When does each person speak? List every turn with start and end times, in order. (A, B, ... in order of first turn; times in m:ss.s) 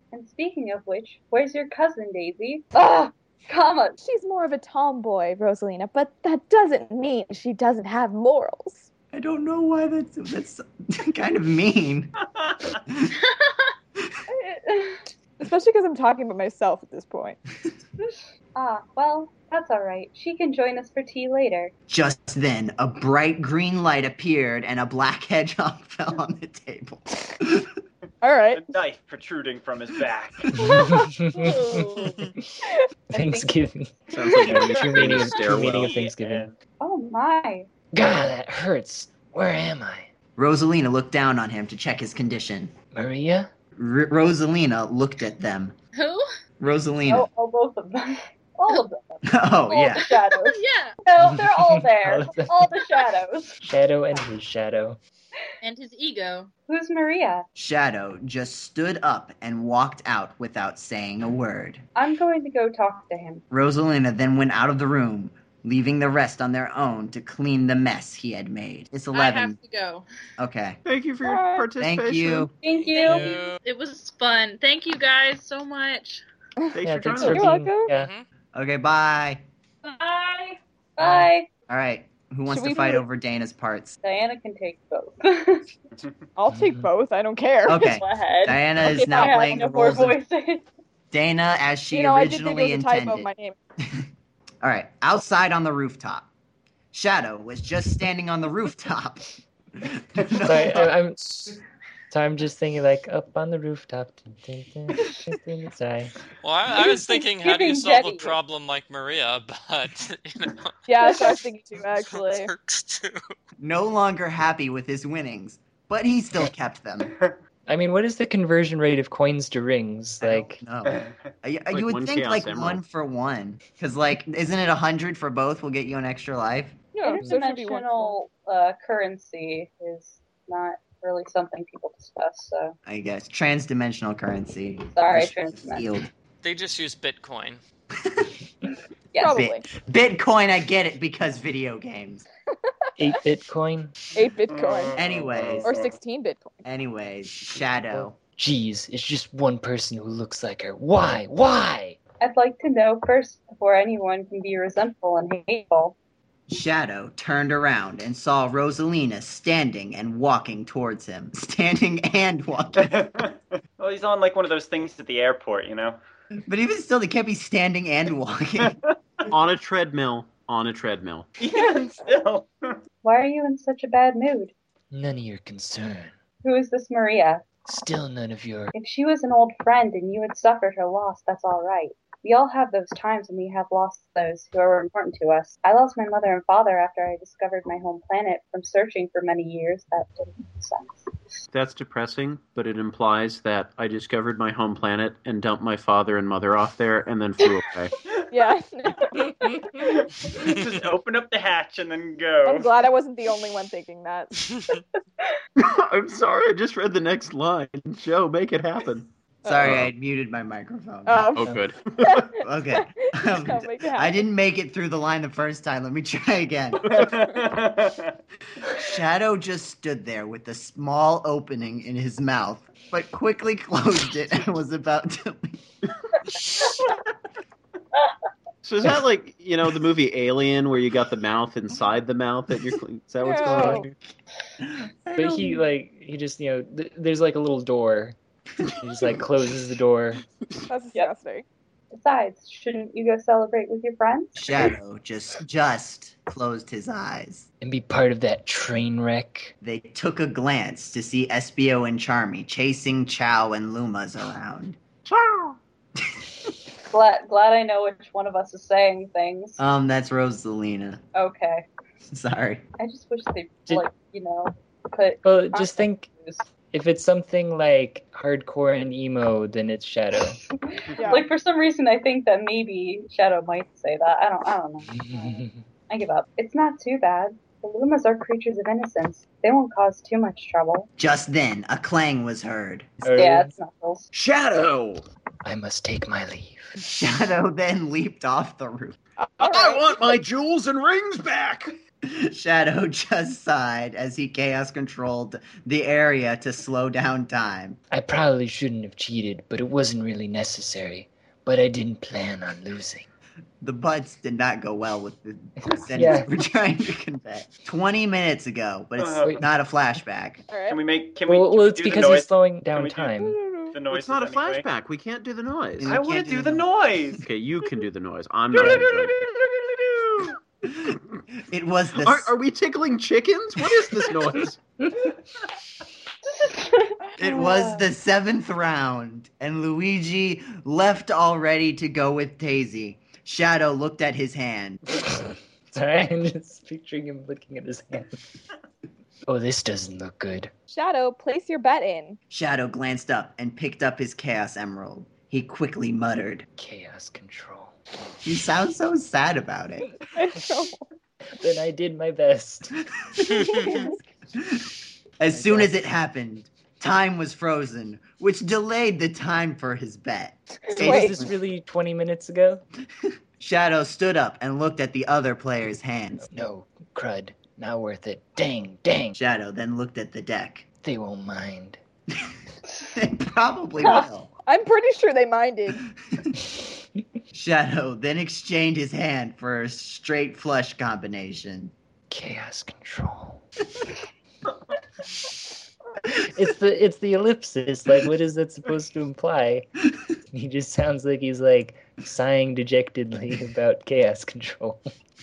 0:00.1-0:04.0 A
0:04.0-0:08.9 B
0:09.1-0:12.1 C
0:12.9-0:13.1 C
0:13.2-0:13.7 D
0:14.3-0:15.0 A
0:15.4-0:17.4 B
0:18.0-0:21.7 A
0:21.9-0:27.7 C
0:28.2-0:28.6 B
0:28.5-0:30.5 E
0:30.6-0:32.6 F
0:31.4-0:32.2 D
0:32.0-0:32.3 G
0:33.1-0:36.5 F
0:33.1-0:33.5 A
0:34.1-0:36.0 G
0:34.2-0:34.5 A
0:35.2-0:36.5 E
0:36.8-0:37.7 A
0:37.9-0:40.1 F
0:40.4-0:42.7 C
0:42.9-0:43.5 F
0:43.8-0:45.8 C
0:46.0-0:46.3 D
0:46.6-0:47.3 C
0:47.1-0:53.6 A
0:49.3-0:50.0 C
0:50.0-0:51.0 D
0:51.2-0:52.7 F
0:53.6-0:55.0 F
0:55.6-0:56.5 D
0:56.7-0:57.5 A
0:57.6-1:01.8 C
1:02.0-1:03.4 A
1:03.5-1:09.6 C
1:09.1-1:10.0 D
1:10.4-1:10.8 C
1:10.8-1:12.5 G
1:11.2-1:11.7 B
1:11.8-1:12.5 C
1:12.6-1:13.4 A
1:12.8-1:16.2 D
1:12.9-1:13.6 H
1:16.6-1:17.9 B
1:16.7-1:17.5 G
1:16.8-1:18.1 F
1:17.9-1:18.2 H
1:18.5-1:19.4 C
1:19.8-1:21.5 A
1:21.0-1:21.3 F
1:21.7-1:24.0 C
1:22.5-1:23.0 B
1:24.0-1:25.7 A
1:26.4-1:27.9 B
1:26.5-1:26.9 F
1:27.7-1:30.2 C
1:27.8-1:30.6 A
1:29.2-1:29.5 B
1:31.1-1:33.3 C
1:31.9-1:33.6 B
1:34.6-1:36.3 C
1:36.9-1:40.9 C
1:40.4-1:41.6 F
1:42.1-1:46.2 F
1:46.4-1:51.4 H
1:46.7-1:48.4 A
1:50.9-1:52.5 B
1:52.0-1:53.3 H
1:53.6-1:57.1 C
1:57.7-2:00.6 F
2:00.2-2:06.8 C
2:00.9-2:01.1 E
2:01.7-2:02.8 G
2:06.9-2:08.2 B
2:07.0-2:12.8 A
2:12.9-2:16.1 C
2:14.9-2:15.9 A
2:16.4-2:17.6 H
2:18.0-2:18.3 C
2:19.1-2:19.5 A
2:19.2-2:19.6 B
2:19.3-2:22.2 C
2:23.0-2:23.9 F
2:24.2-2:25.0 B
2:24.5-2:26.0 E
2:25.0-2:25.7 C
2:25.6-2:26.6 B
2:26.6-2:28.2 C
2:27.9-2:32.0 F
2:32.2-2:36.0 A
2:36.5-2:43.0 C
2:42.8-2:46.0 E
2:46.5-2:48.8 C
2:48.6-2:49.3 E
2:49.3-2:51.3 G
2:51.4-2:52.8 E
2:53.0-2:54.5 A
2:54.9-2:56.2 F
2:56.4-2:57.4 A
2:57.7-2:58.7 F
2:58.8-3:11.4 A
3:11.5-3:17.9 G
3:18.3-3:19.9 B
3:19.8-3:22.7 E
3:22.5-3:24.6 B
3:25.6-3:29.1 G
3:29.4-3:31.3 C
3:29.4-3:29.7 B
3:29.6-3:29.9 G
3:31.1-3:34.2 B
3:31.4-3:32.4 G
3:32.4-3:37.0 C
3:36.8-3:38.1 E
3:38.7-3:45.6 C
3:48.6-3:53.9 G
3:53.2-3:53.8 B
3:53.5-3:53.9 F
3:54.6-3:55.6 C
3:55.2-3:58.2 F
3:58.8-4:00.2 F
4:00.7-4:01.4 B
4:01.9-4:04.5 A
4:04.4-4:07.5 C
4:07.6-4:09.5 F
4:09.6-4:14.8 C
4:15.1-4:15.6 G
4:16.9-4:19.6 A
4:19.6-4:21.0 C
4:21.1-4:21.7 A
4:22.1-4:22.6 C
4:22.8-4:26.5 A
4:25.2-4:26.1 F
4:26.7-4:30.4 F
4:30.7-4:40.9 A
4:31.0-4:31.3 B
4:34.9-4:35.6 F
4:41.0-4:43.2 C
4:43.0-4:43.5 F
4:43.1-4:44.1 A
4:44.1-4:45.0 G
4:45.4-4:46.8 F
4:46.8-4:49.0 C
4:49.2-4:50.2 B
4:49.4-4:51.7 G
4:52.0-4:57.8 C
4:57.9-5:03.1 F
5:03.6-5:10.4 C
5:05.6-5:06.3 F
5:09.0-5:09.4 E
5:10.5-5:10.8 B
5:10.7-5:13.2 E
5:11.3-5:13.4 F
5:13.2-5:13.8 B
5:13.7-5:14.6 E
5:13.9-5:16.0 G
5:15.8-5:16.6 C
5:15.9-5:17.2 E
5:17.2-5:19.2 G
5:18.6-5:19.1 E
5:20.8-5:22.3 C
5:22.0-5:24.6 G
5:26.3-5:27.9 A
5:27.2-5:34.8 C
5:35.1-5:38.2 F
5:39.3-5:40.5 F
5:40.7-5:42.2 B
5:42.3-5:46.5 C
5:46.6-5:47.7 F
5:48.2-5:49.9 C
5:50.2-5:50.8 B
5:51.4-5:52.8 F
5:53.0-6:01.3 C
5:53.3-5:53.6 H
5:53.5-5:54.0 B
5:55.3-5:55.7 F
6:00.7-6:01.2 B
6:00.7-6:02.6 F
6:03.4-6:06.3 C
6:06.3-6:09.2 F
6:09.2-6:10.6 C
6:10.8-6:11.8 F
6:13.0-6:14.3 C
6:13.8-6:14.1 A
6:14.5-6:15.8 B
6:17.3-6:21.7 C
6:22.1-6:23.4 F
6:26.2-6:29.7 F
6:30.3-6:34.8 F